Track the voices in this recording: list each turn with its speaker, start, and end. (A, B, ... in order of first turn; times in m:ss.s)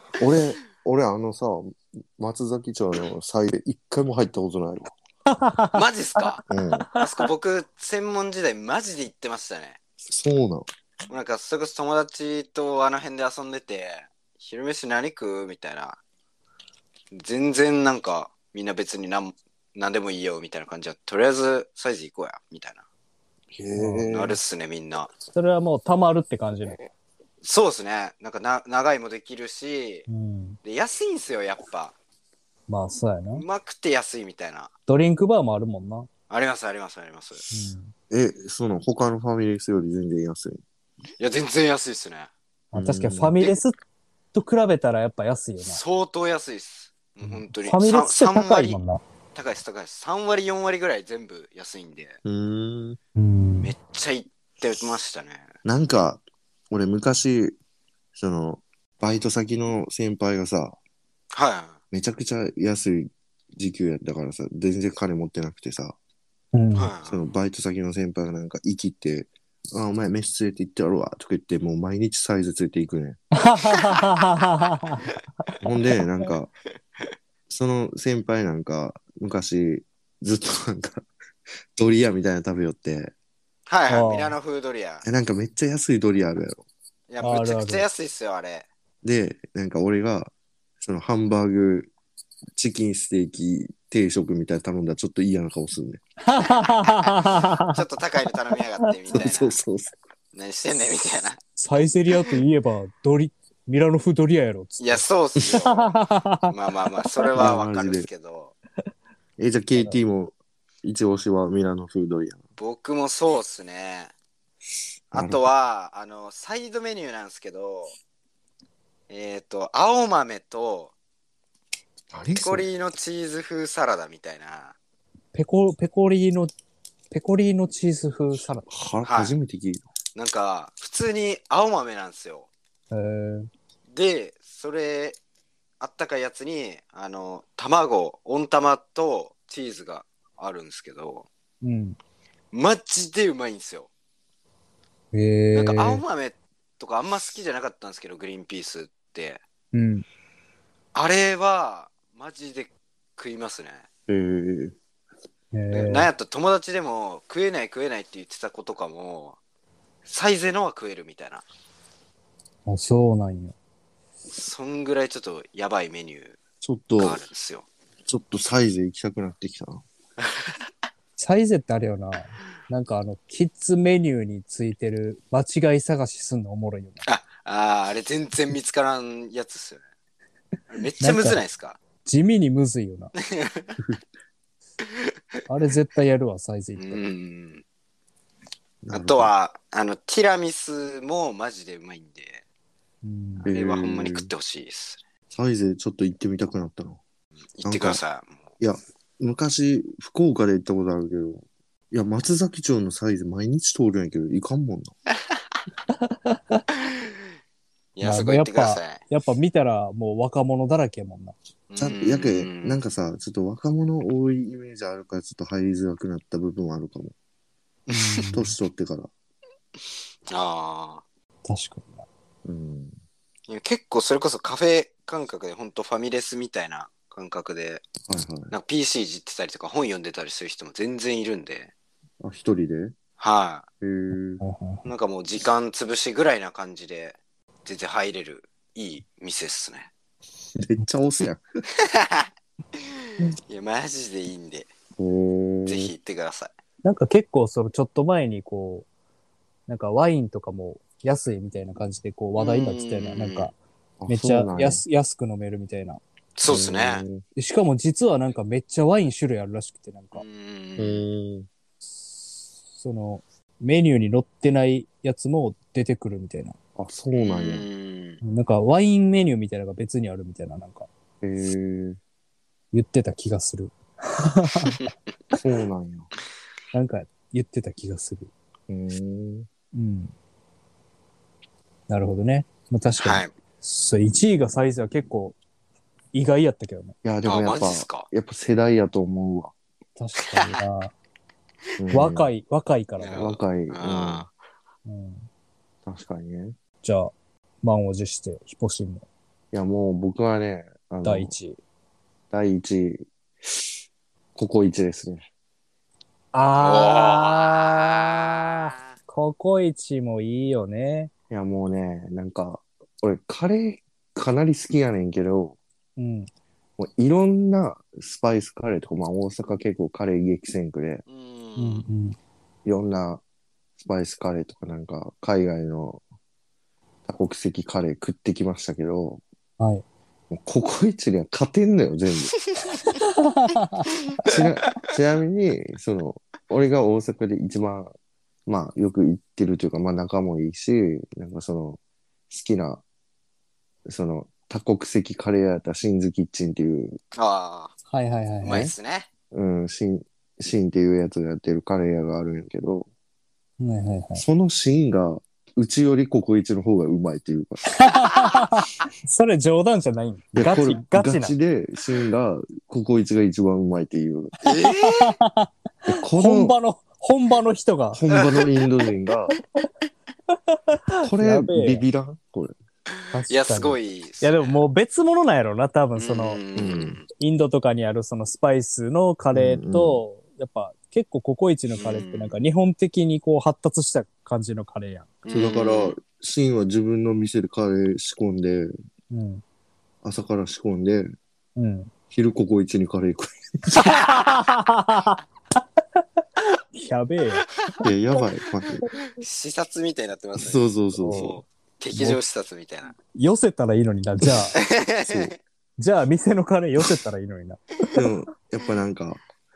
0:00.2-0:04.9 A
0:05.3-0:07.3 B
0:05.7-0:06.4 C
0:06.5-0:06.9 A
0:07.0-0:09.8 C
0:10.0-0:10.7 A
0:11.1-0:16.0 C
0:17.1-0:22.8 C
0:23.5-0:24.4 A
0:23.8-0:24.1 B
0:24.1-0:25.1 C
0:25.3-0:26.8 B
0:27.4-0:30.1 C
0:30.1-0:30.6 B
0:30.6-0:32.0 C
0:32.7-0:33.4 B
0:33.3-0:34.7 C
0:34.9-0:36.1 B
0:36.3-0:37.5 C
0:37.5-0:37.9 B
0:38.1-0:40.6 A
0:41.2-0:42.3 C
0:42.7-0:43.8 B
0:42.7-0:43.4 A
0:44.3-0:45.8 B
0:45.7-0:48.8 C
0:47.2-0:49.0 B
0:49.4-0:52.2 C
0:52.2-0:53.0 A
0:53.2-0:53.7 B
0:53.6-0:55.5 C
0:55.6-0:57.6 A
0:58.2-1:00.8 A
1:01.3-1:01.8 C
1:01.9-1:06.0 A
1:06.5-1:06.9 B
1:06.8-1:07.2 C
1:07.1-1:13.2 A
1:13.3-1:15.1 B
1:15.6-1:16.5 A
1:17.5-1:21.0 A
1:21.8-1:23.1 A
1:23.7-1:25.0 C
1:23.9-1:24.4 B
1:25.0-1:26.7 A
1:27.1-1:28.7 C
1:27.2-1:27.9 B
1:29.0-1:31.9 A
1:32.6-1:36.0 A
1:36.2-1:37.8 B
1:36.7-1:39.6 C
1:38.8-1:39.2 B
1:39.1-1:39.9 A
1:40.3-1:41.4 C
1:41.6-1:46.5 B
1:44.8-1:48.6 C
1:47.2-1:47.5 B
1:47.4-1:48.1 A
1:49.4-1:52.4 A
1:49.8-1:50.0 B
1:52.6-1:54.1 C
1:55.1-1:58.0 C
1:55.1-1:55.4 A
1:59.1-2:00.9 C
2:02.1-2:02.7 A
2:02.4-2:04.8 C
2:05.3-2:06.5 B
2:07.1-2:08.7 B
2:08.7-2:09.8 A
2:09.1-2:09.4 C
2:10.2-2:12.5 C
2:12.9-2:13.5 B
2:13.9-2:15.2 C
2:15.8-2:21.3 C
2:21.6-2:22.0 B
2:22.5-2:23.9 C
2:25.1-2:26.0 B
2:25.5-2:29.4 C
2:29.7-2:30.0 B
2:30.9-2:33.9 C
2:34.1-2:34.8 A
2:35.5-2:36.1 B
2:35.7-2:39.4 C
2:40.0-2:41.4 C
2:42.7-2:43.6 B
2:44.3-2:46.4 C
2:46.6-2:47.2 A
2:47.0-2:47.7 C
2:48.1-2:49.8 A
2:51.2-2:57.0 B
2:57.1-2:59.8 C
3:00.7-3:01.8 C
3:01.0-3:01.4 B
3:02.0-3:03.1 B
3:03.2-3:03.7 C
3:05.5-3:07.0 B
3:06.8-3:07.6 C
3:08.8-3:09.3 A
3:08.9-3:12.4 C
3:13.0-3:13.5 B
3:13.4-3:14.3 A
3:13.5-3:15.0 C
3:15.3-3:17.0 A
3:17.6-3:18.4 C
3:17.6-3:18.0 A
3:18.6-3:24.9 A
3:25.9-3:26.6 B
3:28.0-3:29.0 C
3:28.0-3:31.3 B
3:31.7-3:32.8 C
3:31.8-3:37.2 A
3:37.9-3:38.2 C
3:37.9-3:38.6 B
3:38.3-3:39.1 A
3:40.3-3:41.0 C
3:41.5-3:42.1 B
3:42.4-3:42.9 A
3:43.5-3:47.9 C
3:48.1-3:48.5 A
3:48.5-3:51.7 C
3:52.2-3:53.0 A
3:53.2-3:53.6 C
3:53.8-3:54.4 A
3:54.4-3:54.9 B
3:54.8-3:59.9 C
4:00.6-4:01.4 A
4:01.8-4:02.3 C
4:02.8-4:04.7 C
4:05.0-4:05.9 A
4:05.7-4:06.5 C
4:06.8-4:08.9 B
4:09.7-4:13.6 B
4:12.4-4:13.5 C
4:14.0-4:14.8 A
4:14.1-4:16.0 B
4:16.4-4:17.0 C
4:16.5-4:17.2 A
4:17.4-4:20.2 B
4:20.2-4:21.0 C
4:20.8-4:21.5 A
4:22.0-4:26.6 B
4:26.8-4:27.7 A
4:27.1-4:28.2 C
4:28.2-4:30.9 B
4:31.2-4:32.0 A
4:32.7-4:34.8 B
4:35.4-4:36.1 A
4:36.7-4:38.3 B
4:38.7-4:39.5 A
4:39.7-4:40.1 B
4:41.9-4:45.4 B
4:43.0-4:43.3 C
4:46.1-4:47.0 B
4:47.0-4:49.5 A
4:47.2-4:48.1 C
4:50.0-4:50.9 B
4:50.3-4:50.6 C
4:51.8-4:52.3 A
4:51.9-4:53.4 B
4:53.0-4:54.3 C
4:53.2-4:54.3 A
4:54.9-4:55.3 B
4:55.9-4:56.6 A
4:56.8-4:59.1 B
4:59.5-5:01.4 A
5:01.0-5:01.6 B
5:02.3-5:03.1 A
5:04.4-5:05.3 A
5:06.3-5:11.1 B
5:06.6-5:08.7 C
5:11.3-5:15.6 A
5:16.0-5:16.3 B
5:16.8-5:21.0 A
5:21.1-5:21.9 C
5:21.6-5:22.2 B
5:22.7-5:23.2 A
5:23.8-5:26.0 A
5:27.1-5:29.2 A
5:29.6-5:29.8 B
5:30.3-5:32.5 A
5:33.0-5:33.9 B
5:34.1-5:34.4 C
5:34.2-5:37.9 A
5:38.5-5:42.8 A
5:43.9-5:47.0 A
5:47.2-5:47.7 C
5:47.9-5:48.7 B
5:48.4-5:49.1 C
5:49.3-5:52.9 A
5:53.6-5:54.2 B
5:54.2-5:57.8 A
5:57.8-6:01.3 B
6:00.3-6:04.3 A
6:04.4-6:05.2 C
6:04.5-6:08.0 B
6:05.9-6:06.6 A
6:07.9-6:09.3 A
6:08.1-6:08.5 C
6:10.5-6:11.9 B
6:11.0-6:12.6 A
6:13.1-6:16.4 B
6:13.3-6:14.6 C
6:16.0-6:17.1 C
6:16.6-6:17.0 A
6:17.2-6:25.1 B
6:19.3-6:20.0 A
6:21.7-6:22.4 C
6:25.2-6:26.0 C
6:25.3-6:28.7 A
6:29.1-6:29.4 B
6:30.0-6:31.1 A
6:31.6-6:31.9 B
6:32.1-6:33.9 A
6:33.7-6:35.2 B
6:33.8-6:34.2 C
6:36.7-6:37.5 B
6:37.8-6:38.8 A
6:39.1-6:43.0 C
6:40.4-6:41.4 A
6:41.0-6:41.4 B
6:41.9-6:42.2 B
6:43.1-6:44.6 B
6:44.6-6:45.4 C
6:45.0-6:45.4 A
6:45.8-6:48.0 B
6:47.9-6:49.2 A